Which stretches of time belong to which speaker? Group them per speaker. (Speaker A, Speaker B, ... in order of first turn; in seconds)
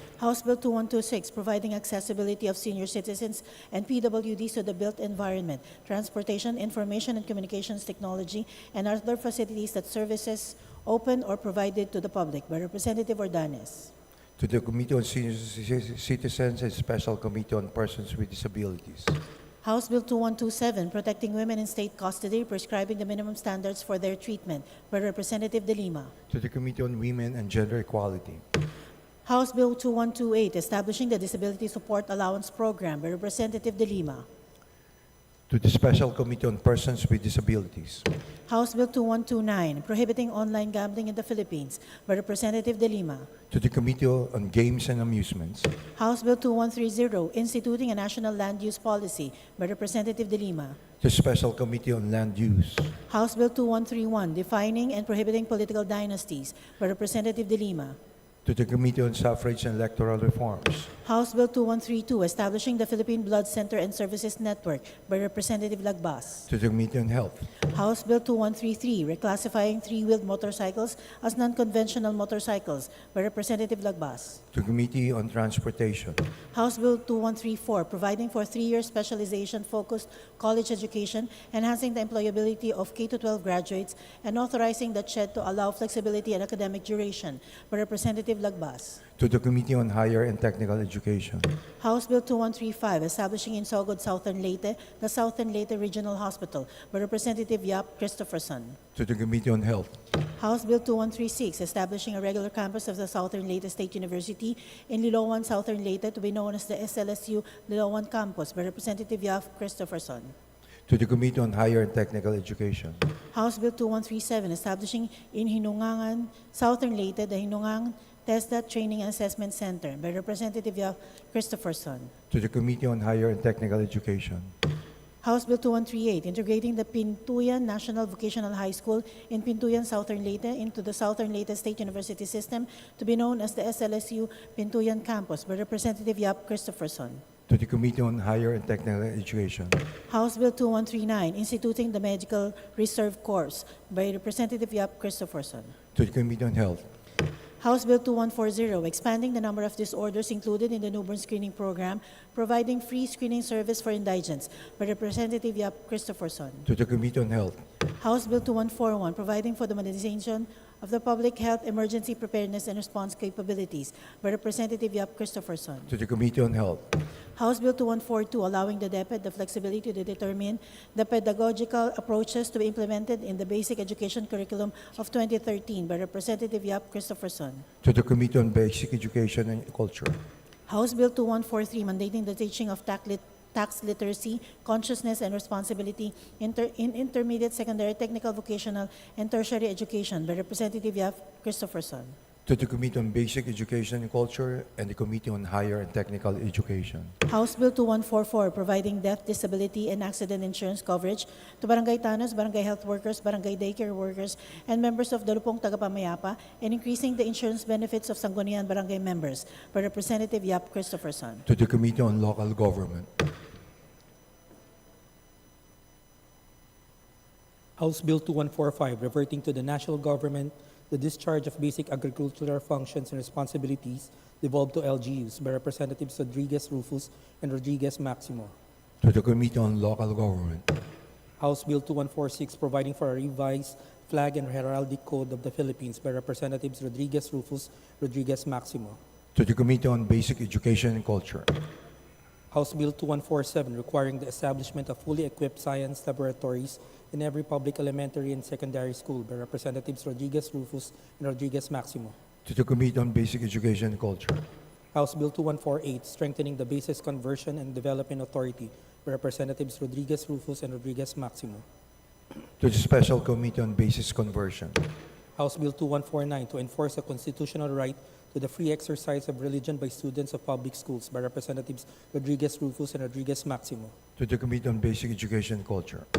Speaker A: 0.2-13.9, 19.6-26.1, 29.2-34.2, 38.5-43.3, 45.9-50.8, 53.1-58.0, 61.0-66.5, 67.6-74.4, 76.5-89.0, 91.8-98.8, 100.3-110.3, 113.3-122.1, 125.2-137.2, 140.1-145.7, 147.6-156.7, 158.0-165.9, 167.3-177.6, 180.7-192.1, 197.2-211.4
Speaker B: 14.4-19.2, 26.3-28.4, 35.5-38.0, 43.5-45.7, 51.0-52.9, 58.4-60.9, 66.5-67.5, 74.5-76.2, 89.2-91.5, 99.0-100.0, 110.9-113.0, 122.3-124.5, 137.5-139.8, 145.9-146.8, 156.7-157.6, 165.9-166.9, 177.8-180.2, 192.4-197.1, 211.4-213.1, 229.0-230.7, 239.3-241.5, 252.4-254.4, 262.6-264.8, 274.2-276.1
Speaker C: 217.8-228.5, 231.4-239.0, 242.5-252.1, 254.9-261.6, 265.4-273.9